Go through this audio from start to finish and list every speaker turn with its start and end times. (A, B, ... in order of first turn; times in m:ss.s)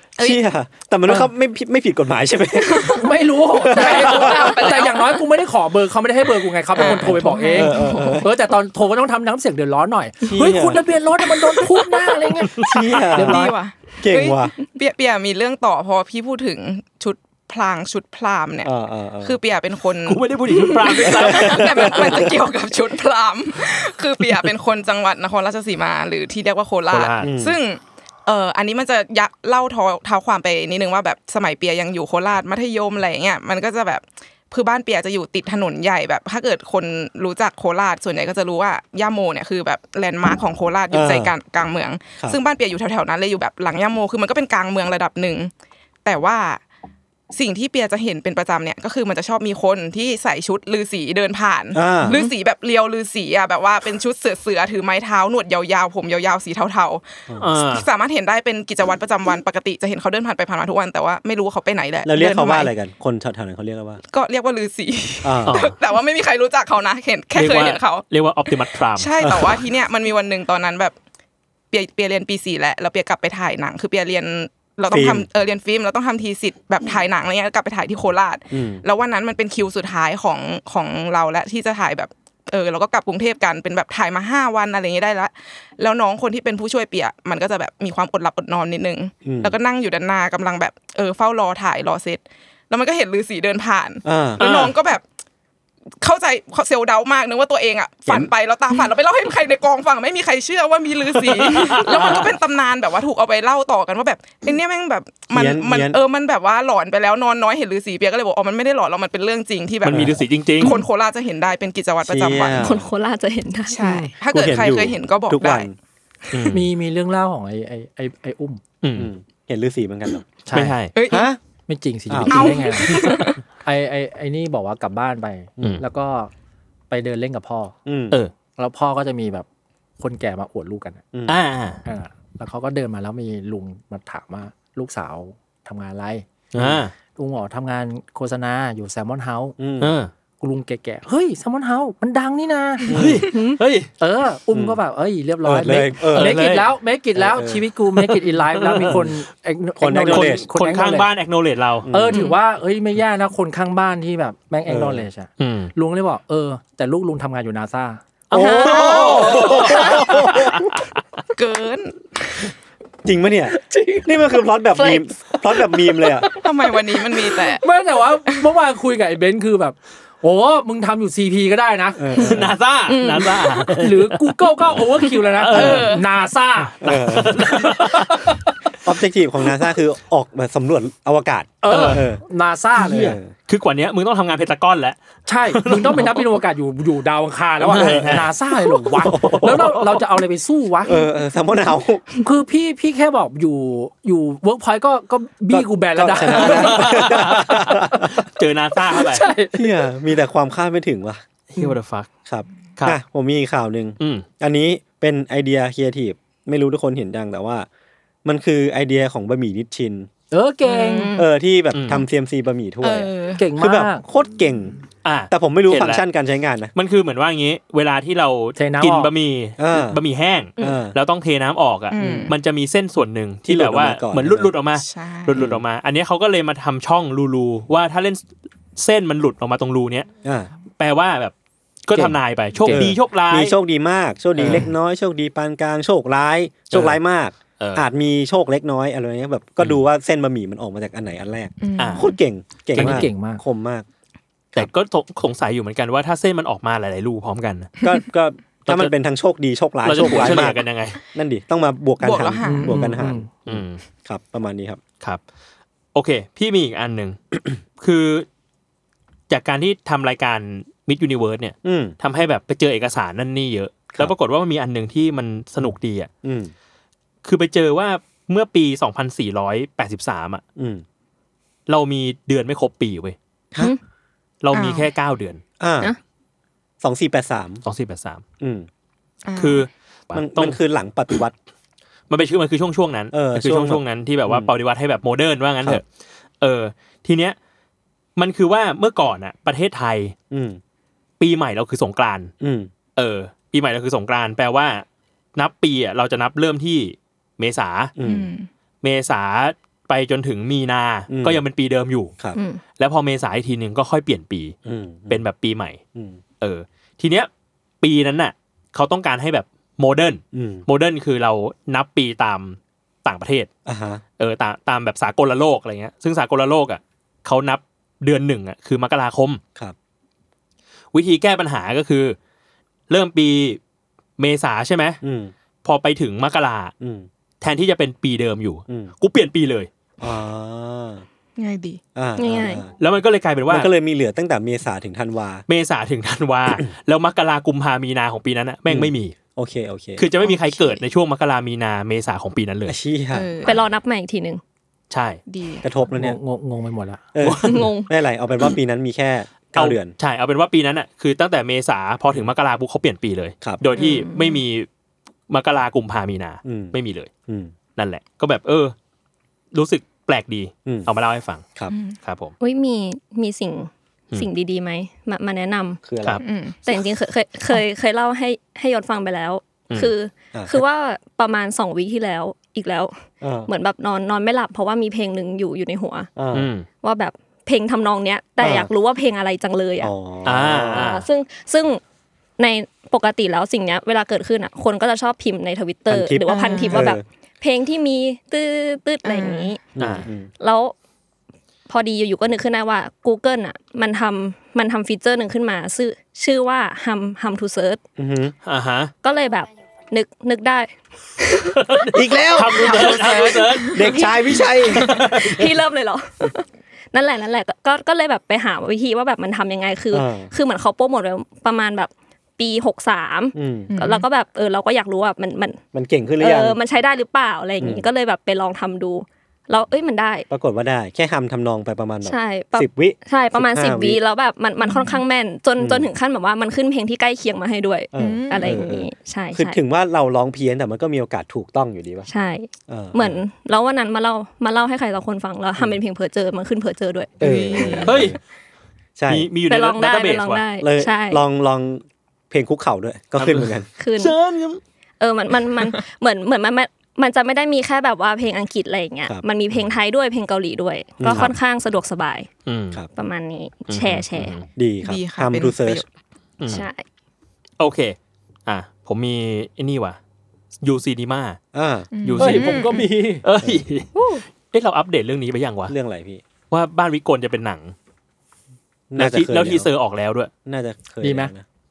0:00.2-0:03.0 A
0:02.9-0:12.6 B
0:03.6-0:04.5 A
0:03.7-0:05.2 C
0:06.7-0:08.3 C
0:06.8-0:08.3 A
0:10.2-0:10.8 A
0:12.5-0:12.9 D
0:12.6-0:13.4 A
0:13.1-0:13.5 B
0:13.2-0:18.7 C
0:14.0-0:14.5 A
0:18.6-0:19.4 A
0:19.2-0:45.5 C
0:20.0-0:22.3 D
0:21.0-0:22.3 A
0:26.9-0:27.3 D
0:27.2-0:27.6 A
0:40.9-0:41.3 A
0:46.0-0:46.6 C
0:47.3-1:02.7 C
0:51.7-0:52.2 A
0:57.4-0:57.9 D
1:02.0-1:04.0 A
1:04.1-1:08.0 C
1:05.2-1:05.6 A
1:05.4-1:05.8 D
1:07.3-1:09.5 D
1:08.9-1:10.9 C
1:09.2-1:09.5 A
1:11.7-1:35.0 C
1:14.9-1:15.3 A
1:18.5-1:18.8 A
1:29.2-1:29.5 A
1:34.0-1:34.4 A
1:34.4-1:34.7 D
1:36.0-1:52.7 C
1:41.1-1:42.3 D
1:45.3-1:46.0 A
1:49.8-1:50.8 D
1:49.9-1:50.2 A
1:52.0-1:52.8 A
1:52.6-1:53.9 E
1:53.7-1:55.7 C
1:53.8-1:54.1 B
1:54.3-1:55.7 A
1:56.3-1:56.7 D
1:56.5-1:58.6 B
1:58.8-1:59.1 D
1:59.0-2:00.3 A
2:00.4-2:00.8 B
2:00.5-2:00.9 D
2:00.9-2:01.3 C
2:01.1-2:01.4 A
2:01.7-2:06.3 B
2:02.1-2:02.5 A
2:02.3-2:03.4 C
2:06.9-2:07.7 B
2:07.8-2:08.2 A
2:08.6-2:09.4 B
2:10.0-2:11.0 B
2:11.1-2:11.4 A
2:11.3-2:11.8 D
2:11.8-2:16.2 B
2:16.5-2:16.9 D
2:16.6-2:16.8 A
2:17.2-2:19.6 B
2:19.6-2:20.0 A
2:19.8-2:20.1 D
2:20.4-2:22.9 B
2:22.9-2:23.3 A
2:22.9-2:23.9 D
2:23.3-2:23.6 C
2:24.0-2:31.1 B
2:24.5-2:24.8 A
2:25.4-2:26.4 A
2:26.1-2:26.7 D
2:27.2-2:27.7 A
2:28.0-2:29.1 D
2:28.8-2:29.1 A
2:29.8-2:30.4 A
2:30.1-2:31.9 D
2:31.8-2:32.2 A
2:31.9-2:38.0 B
2:34.7-2:35.0 A
2:35.4-2:35.7 D
2:38.3-2:40.6 D
2:38.3-2:40.7 A
2:38.3-2:38.8 E
2:38.7-2:39.8 C
2:41.4-2:42.5 C
2:43.0-2:46.3 A
2:43.7-2:44.0 C
2:44.8-2:45.0 C
2:46.1-2:47.6 C
2:47.5-2:52.0 B
2:52.0-2:52.6 A
2:52.2-2:54.4 D
2:53.8-2:58.4 B
2:55.4-2:55.9 D
2:55.5-2:56.0 C
2:56.8-2:57.5 A
2:56.8-2:58.3 D
2:58.8-3:02.2 A
3:01.6-3:03.2 B
3:01.7-3:02.0 D
3:02.8-3:03.3 A
3:02.9-3:05.0 D
3:05.2-3:11.0 B
3:05.5-3:06.3 D
3:07.6-3:08.3 D
3:07.7-3:08.2 A
3:09.0-3:09.9 D
3:09.0-3:09.8 A
3:10.8-3:12.0 A
3:12.2-3:17.3 B
3:15.5-3:18.1 A
3:16.2-3:19.2 D
3:18.9-3:19.7 B
3:19.5-3:21.2 A
3:21.5-3:22.1 D
3:22.3-3:27.7 A
3:24.0-3:24.2 D
3:28.2-3:30.1 A
3:30.3-3:31.1 B
3:30.6-3:31.2 C
3:31.1-3:34.8 A
3:31.7-3:32.0 D
3:32.8-3:33.4 C
3:33.4-3:34.0 B
3:35.0-3:36.0 D
3:35.3-3:36.7 A
3:36.7-3:48.2 D
3:38.6-3:39.1 B
3:39.6-3:40.0 A
3:40.6-3:41.0 A
3:41.9-3:42.3 C
3:43.4-3:44.5 A
3:44.7-3:45.4 C
3:45.3-3:45.6 A
3:48.8-3:50.1 D
3:50.2-3:50.5 A
3:50.8-3:51.3 D
3:51.9-3:53.5 D
3:51.9-3:52.9 B
3:52.7-4:03.8 A
3:54.4-3:54.7 D
3:56.7-3:57.0 D
3:57.6-3:57.9 D
4:01.6-4:02.2 C
4:01.8-4:02.1 D
4:02.7-4:03.1 D
4:02.7-4:03.4 B
4:04.5-4:07.7 D
4:07.8-4:10.6 A
4:08.6-4:08.9 D
4:09.8-4:11.0 D
4:11.1-4:14.8 A
4:12.0-4:12.8 C
4:12.4-4:13.3 B
4:13.5-4:13.8 D
4:15.9-4:17.2 D
4:17.8-4:18.2 D
4:19.3-4:26.1 D
4:21.6-4:22.0 A
4:26.2-4:26.5 A
4:27.2-4:30.4 D
4:30.6-4:30.8 A
4:31.7-4:33.2 D
4:34.4-4:35.4 D
4:34.5-4:34.9 C
4:35.6-4:35.9 A
4:36.8-4:37.6 A
4:37.6-4:38.2 D
4:38.4-4:38.7 A
4:39.2-4:39.7 C
4:39.4-4:40.6 D
4:40.1-4:41.3 A
4:42.1-4:45.8 D
4:43.1-4:44.5 A
4:46.4-4:47.4 D
4:48.2-4:50.1 D
4:50.3-4:50.6 A
4:51.2-4:52.3 D
4:52.4-4:52.7 A
4:53.0-4:54.8 D
4:55.4-4:57.9 D
4:58.0-4:58.3 A
4:58.0-4:58.5 C
4:58.8-5:02.1 D
5:01.1-5:01.4 A
5:02.3-5:02.6 E
5:02.8-5:04.6 D
5:04.6-5:05.2 A
5:05.1-5:05.8 D
5:05.9-5:06.2 A
5:06.4-5:07.3 D
5:07.8-5:13.5 D
5:10.3-5:10.6 A
5:13.6-5:14.0 A
5:14.2-5:19.4 D
5:20.9-5:22.2 D
5:22.9-5:23.6 D
5:24.2-5:25.0 D
5:25.0-5:25.3 A
5:25.6-5:26.7 D
5:26.8-5:27.1 A
5:27.4-5:29.7 D
5:30.0-5:31.0 A
5:31.4-5:31.8 C
5:31.9-5:32.7 A
5:32.2-5:32.6 E
5:32.8-5:33.7 D
5:33.5-5:35.4 A
5:35.5-5:39.2 D
5:38.7-5:40.0 A
5:40.0-5:42.8 D
5:40.2-5:40.8 C
5:42.7-5:43.3 A
5:43.1-5:43.6 C
5:43.4-5:44.4 E
5:44.9-5:45.2 D
5:45.3-5:45.7 C
5:45.6-5:46.2 A
5:45.9-5:47.0 B
5:47.1-5:49.9 A
5:47.2-5:47.7 D
5:47.5-5:47.9 E
5:49.5-5:54.7 D
5:53.8-5:54.4 E
5:55.3-5:57.1 D
5:56.4-5:56.8 A
5:57.3-5:57.5 A
5:57.8-5:58.7 D
5:59.5-6:01.4 D
6:01.7-6:02.0 C
6:02.0-6:02.3 D
6:02.4-6:05.8 E
6:05.8-6:06.2 A
6:06.2-6:06.8 C
6:06.6-6:16.1 E
6:10.3-6:10.6 A
6:13.2-6:13.5 A
6:16.2-6:16.5 A
6:16.3-6:16.6 D
6:16.8-6:19.9 E
6:18.4-6:18.7 A
6:19.8-6:21.0 A
6:20.2-6:21.0 D
6:20.7-6:21.8 E
6:22.4-6:29.6 E
6:25.9-6:27.0 A
6:26.2-6:26.9 C
6:29.0-6:29.5 C
6:29.7-6:30.3 A
6:29.8-6:30.0 D
6:30.4-6:30.7 E
6:31.7-6:37.8 E
6:38.0-6:38.3 A
6:38.4-6:38.9 D
6:39.0-6:41.5 E
6:41.5-6:44.1 D
6:41.9-6:45.5 A
6:42.7-6:43.8 C
6:42.8-6:44.5 E
6:44.7-6:45.0 C
6:45.1-6:55.6 E
6:49.9-6:50.3 A
6:53.3-6:53.7 A
6:53.7-6:54.1 C
6:55.7-6:56.6 A
6:56.2-7:00.3 E
6:57.6-6:57.8 A
7:00.3-7:04.0 A
7:02.0-7:09.6 E
7:04.6-7:05.0 C
7:05.6-7:05.9 A
7:07.9-7:12.1 A
7:08.0-7:08.8 C
7:12.1-7:18.0 E
7:12.7-7:13.2 A
7:17.2-7:18.2 A
7:17.2-7:17.9 C
7:17.8-7:18.2 D
7:19.0-7:19.3 A
7:19.1-7:20.4 D
7:19.5-7:21.2 E
7:20.6-7:23.7 A
7:23.2-7:24.6 D
7:23.8-7:24.2 E
7:25.0-7:32.3 E
7:31.0-7:31.3 A
7:32.4-7:32.8 D
7:33.0-7:34.4 E
7:33.7-7:34.4 D
7:34.5-7:35.8 A
7:34.8-7:35.8 C
7:36.4-7:36.6 D
7:36.5-7:36.8 E
7:37.6-7:38.0 D
7:38.5-7:40.0 D
7:40.6-7:41.4 D
7:41.5-7:43.6 A
7:41.9-7:42.9 C
7:42.0-7:45.7 D
7:42.2-7:42.5 B
7:45.7-7:46.2 A
7:46.5-7:47.7 D
7:48.9-7:49.7 A
7:49.0-7:50.3 D
7:50.4-7:51.4 A
7:51.0-7:51.3 B